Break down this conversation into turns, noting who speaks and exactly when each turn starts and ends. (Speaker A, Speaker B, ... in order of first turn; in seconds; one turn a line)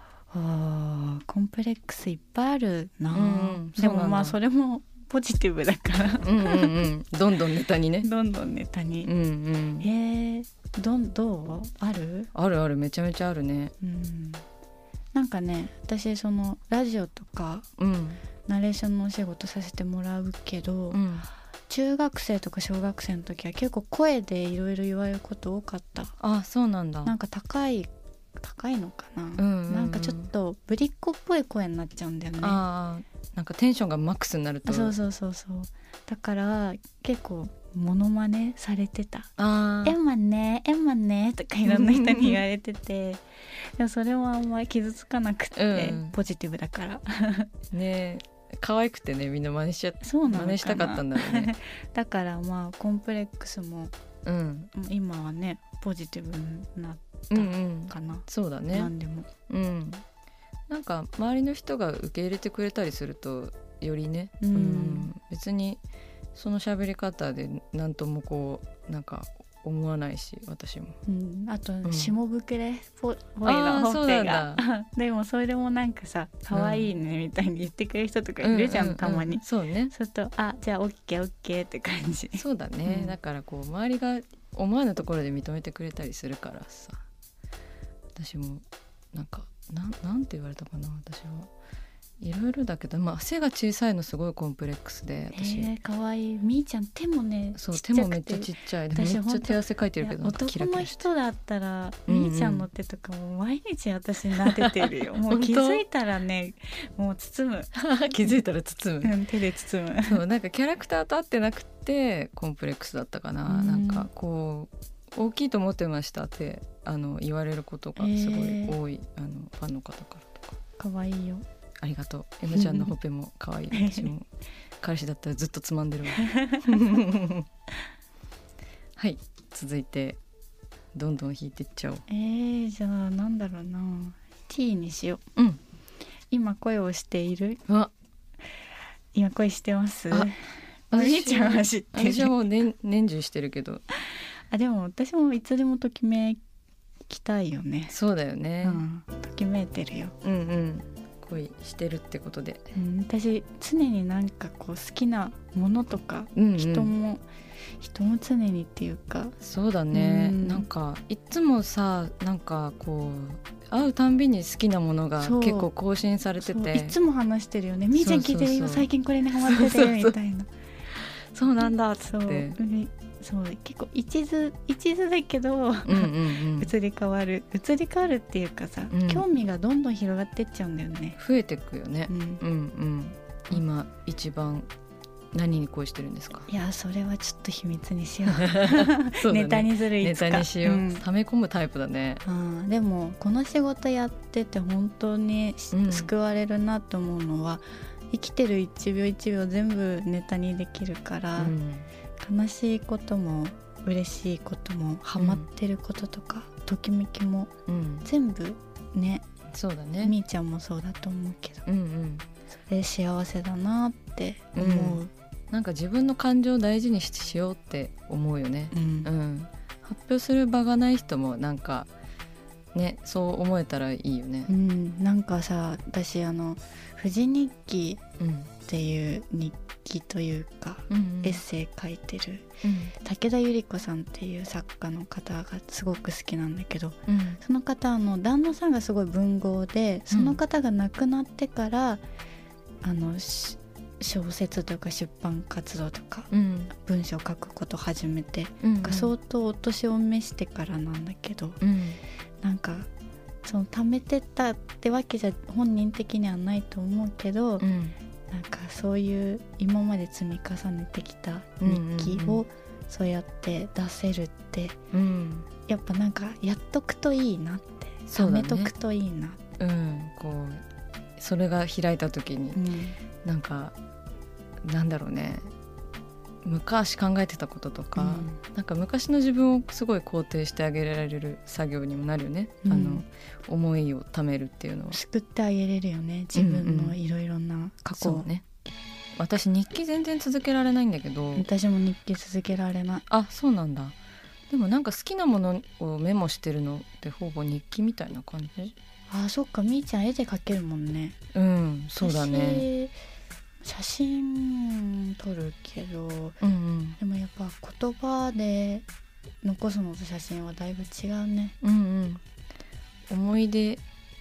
Speaker A: 0.3-6.9
Speaker B: 3.1-4.4
Speaker B: 6.2-8.1
Speaker A: 8.0-9.1
Speaker B: 9.0-9.9
Speaker A: 9.8-12.3
Speaker B: 12.3-13.7
Speaker A: 13.8-14.4
Speaker A: 15.1-17.7
Speaker B: 17.8-18.2
Speaker A: 18.4-21.0
Speaker B: 20.9-21.3
Speaker A: 21.7-26.1
Speaker B: 26.2-27.1
Speaker A: 27.0-32.6
Speaker B: 29.4-30.3
Speaker B: 32.4-34.9
Speaker A: 34.6-39.3
Speaker B: 39.4-40.0
Speaker A: 39.8-47.5
Speaker B: 41.6-42.4
Speaker B: 45.5-46.2
Speaker B: 47.7-51.5
Speaker A: 50.0-53.9
Speaker B: 54.2-54.7
Speaker A: 54.7-59.3
Speaker B: 57.3-58.9
Speaker B: 59.5-60.0
Speaker B: 60.7-65.8
Speaker A: 64.4-65.1
Speaker B: 66.3-71.0
Speaker A: 71.0-83.1
Speaker B: 71.8-72.1
Speaker B: 73.4-74.6
Speaker B: 76.5-76.9
Speaker B: 78.4-79.9
Speaker B: 82.3-87.0
Speaker B: 88.2-91.5
Speaker B: 92.2-95.8
Speaker A: 95.3-107.7
Speaker B: 97.5-101.1
Speaker B: 102.1-102.7
Speaker B: 104.4-105.8
Speaker B: 107.7-109.1
Speaker A: 109.0-110.2
Speaker B: 110.0-120.5
Speaker A: 113.5-114.1
Speaker A: 118.0-118.8
Speaker A: 120.8-121.4
Speaker B: 121.8-124.3
Speaker A: 122.5-122.9
Speaker A: 123.7-124.1
Speaker B: 124.8-127.5
Speaker A: 126.2-126.7
Speaker B: 129.0-130.2
Speaker B: 130.9-132.0
Speaker A: 132.1-135.2
Speaker B: 135.3-135.6
Speaker A: 136.3-137.6
Speaker A: 139.1-142.3
Speaker B: 140.9-143.8
Speaker A: 144.5-146.4
Speaker A: 147.1-148.0
Speaker B: 147.9-148.8
Speaker A: 148.6-150.2
Speaker B: 150.2-152.6
Speaker A: 152.7-157.2
Speaker B: 156.3-156.9
Speaker A: 157.8-159.3
Speaker B: 159.4-167.0
Speaker A: 159.9-160.7
Speaker A: 165.2-165.7
Speaker A: 166.4-170.5
Speaker B: 167.9-170.2
Speaker B: 171.3-172.6
Speaker A: 172.0-181.2
Speaker B: 175.8-176.7
Speaker B: 178.9-179.3
Speaker B: 181.2-184.7
Speaker A: 182.1-182.4
Speaker B: 185.3-186.5
Speaker A: 186.5-191.0
Speaker B: 188.3-192.2
Speaker A: 192.2-201.5
Speaker B: 195.7-196.1
Speaker B: 201.4-201.9
Speaker A: 202.2-207.5
Speaker B: 205.2-205.5
Speaker B: 207.7-208.1
Speaker A: 208.0-209.2
Speaker B: 209.5-210.2
Speaker A: 210.0-211.6
Speaker B: 211.7-212.2
Speaker A: 212.7-215.1
Speaker B: 214.5-221.9
Speaker A: 218.7-219.1
Speaker B: 222.7-224.5
Speaker A: 224.4-228.0
Speaker B: 228.2-228.5
Speaker A: 228.6-242.0
Speaker B: 230.9-231.4
Speaker B: 232.6-232.9
Speaker B: 237.1-237.4
Speaker B: 240.1-240.4
Speaker A: 242.8-251.6
Speaker B: 246.3-246.7
Speaker B: 248.6-249.1
Speaker B: 251.6-252.0
Speaker A: 252.4-252.9
Speaker A: 253.4-257.7
Speaker B: 257.6-258.0
Speaker A: 258.3-264.8
Speaker B: 261.6-262.4
Speaker B: 264.9-265.5
Speaker A: 265.6-269.4
Speaker B: 268.1-268.7
Speaker B: 269.6-270.6
Speaker B: 271.2-272.6
Speaker A: 272.5-272.9
Speaker B: 273.2-273.7
Speaker B: 274.6-275.5
Speaker B: 276.4-285.0
Speaker A: 277.9-278.4
Speaker A: 282.6-283.0
Speaker A: 284.9-288.3
Speaker B: 286.3-287.0
Speaker B: 287.9-288.4
Speaker B: 289.1-291.5
Speaker A: 291.4-293.1
Speaker B: 293.1-293.9
Speaker B: 294.5-298.7
Speaker A: 299.1-301.2
Speaker B: 301.3-302.7
Speaker A: 302.0-302.9
Speaker A: 303.6-306.4
Speaker B: 306.4-307.0
Speaker A: 307.0-308.9
Speaker A: 309.4-311.6
Speaker B: 311.6-312.2
Speaker B: 313.1-313.8